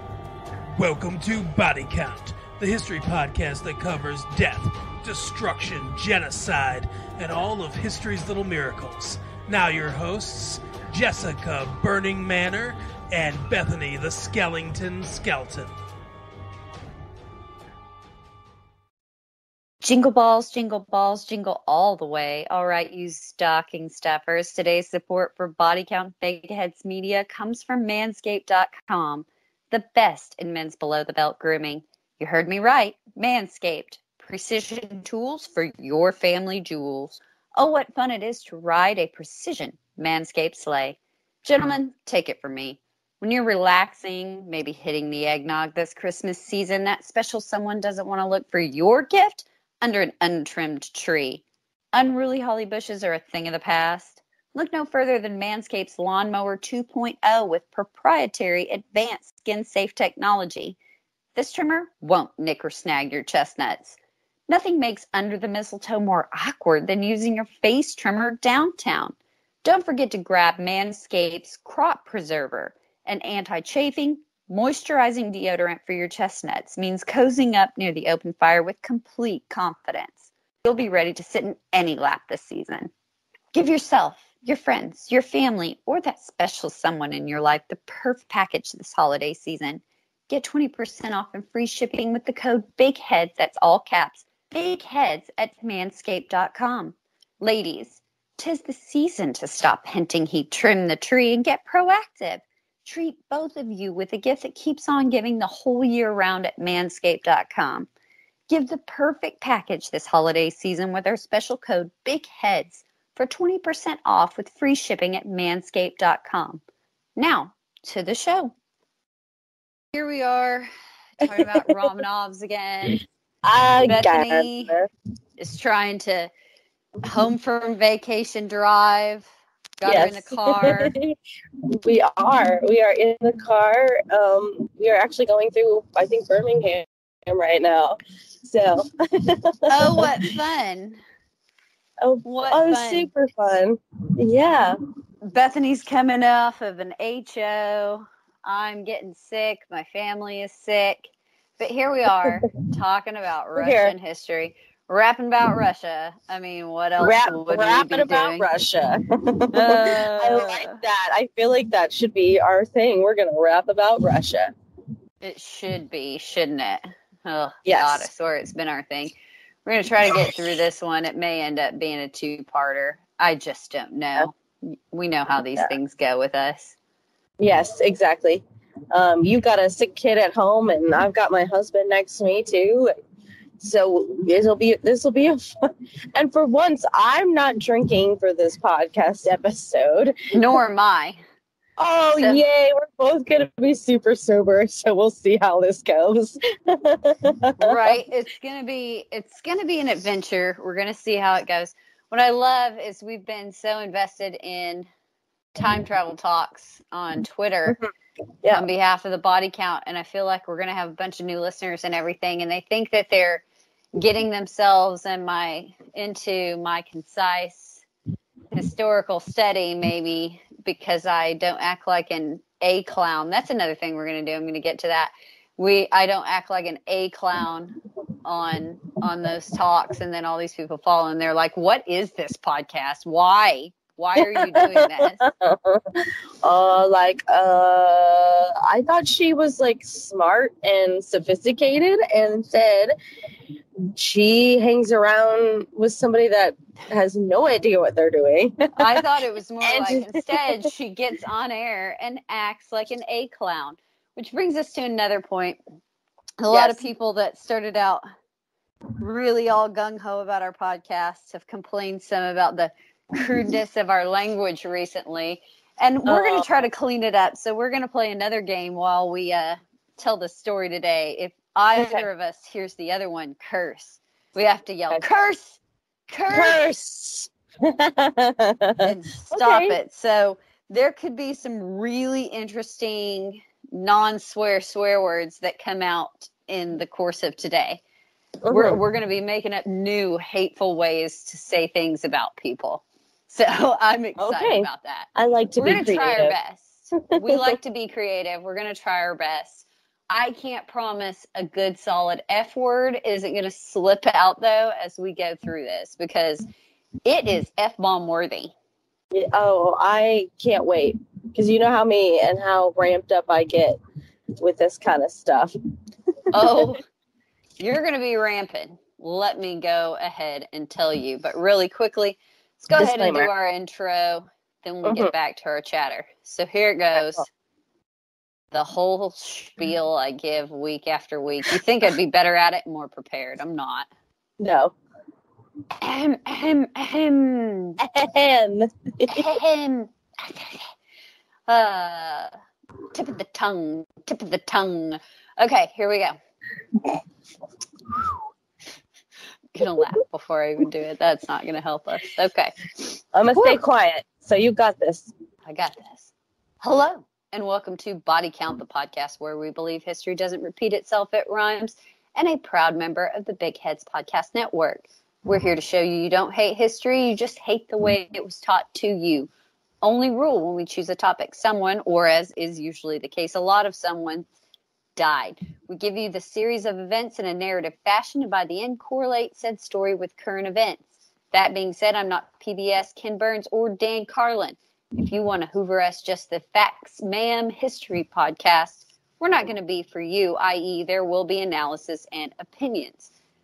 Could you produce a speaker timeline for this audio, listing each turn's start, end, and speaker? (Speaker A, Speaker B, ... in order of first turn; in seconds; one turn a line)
Speaker A: 0.8-15.8
Speaker B: 19.8-51.4
Speaker B: 51.9-60.8
Speaker B: 61.4-64.0
Speaker B: 64.5-82.9
Speaker B: 83.5-107.9
Speaker B: 108.5-116.6
Speaker B: 117.2-118.5
Speaker B: 119.9-123.0
Speaker C: 121.3-121.7
Speaker C: 123.5-124.9
Speaker B: 123.9-124.7
Speaker B: 125.4-126.3
Speaker B: 127.0-130.9
Speaker C: 129.8-131.1
Speaker C: 131.7-140.1
Speaker B: 139.7-141.0
Speaker C: 142.0-144.8
Speaker B: 142.2-143.1
Speaker B: 145.2-151.0
Speaker B: 151.6-158.5
Speaker C: 153.6-153.9
Speaker C: 157.0-164.5
Speaker B: 159.5-160.8
Speaker B: 165.2-169.1
Speaker C: 167.7-168.1
Speaker B: 169.7-176.8
Speaker C: 177.4-182.9
Speaker C: 183.6-185.6
Speaker C: 186.2-190.2
Speaker B: 190.3-191.2
Speaker C: 191.8-197.8
Speaker B: 192.2-192.4
Speaker B: 197.6-204.9
Speaker B: 205.6-207.8
Speaker B: 208.5-217.8
Speaker B: 218.5-235.2
Speaker C: 234.2-242.9
Speaker C: 243.8-249.0
Speaker B: 248.8-255.6
Speaker C: 249.6-250.2
Speaker B: 256.4-258.0
Speaker C: 256.5-256.8
Speaker B: 259.0-276.6
Speaker C: 266.1-266.5
Speaker C: 271.8-272.0
Speaker C: 276.3-279.8
Speaker B: 278.8-287.8
Speaker C: 288.4-288.8
Speaker B: 288.5-295.1
Speaker C: 294.2-296.4
Speaker B: 295.6-306.4
Speaker C: 297.3-297.6
Speaker B: 307.1-308.5
Speaker C: 309.1-313.8
Speaker C: 314.4-315.5
Speaker B: 316.3-316.8
Speaker B: 317.6-327.3
Speaker C: 322.8-323.3
Speaker C: 324.9-325.1
Speaker B: 328.5-333.9
Speaker C: 334.4-334.7
Speaker B: 335.8-337.8
Speaker C: 337.8-339.3
Speaker B: 339.1-340.7
Speaker B: 341.5-342.3
Speaker B: 342.9-346.2
Speaker B: 349.6-353.6
Speaker C: 353.1-355.1
Speaker B: 355.5-356.1
Speaker B: 356.6-369.3
Speaker B: 369.8-374.3
Speaker B: 375.0-393.1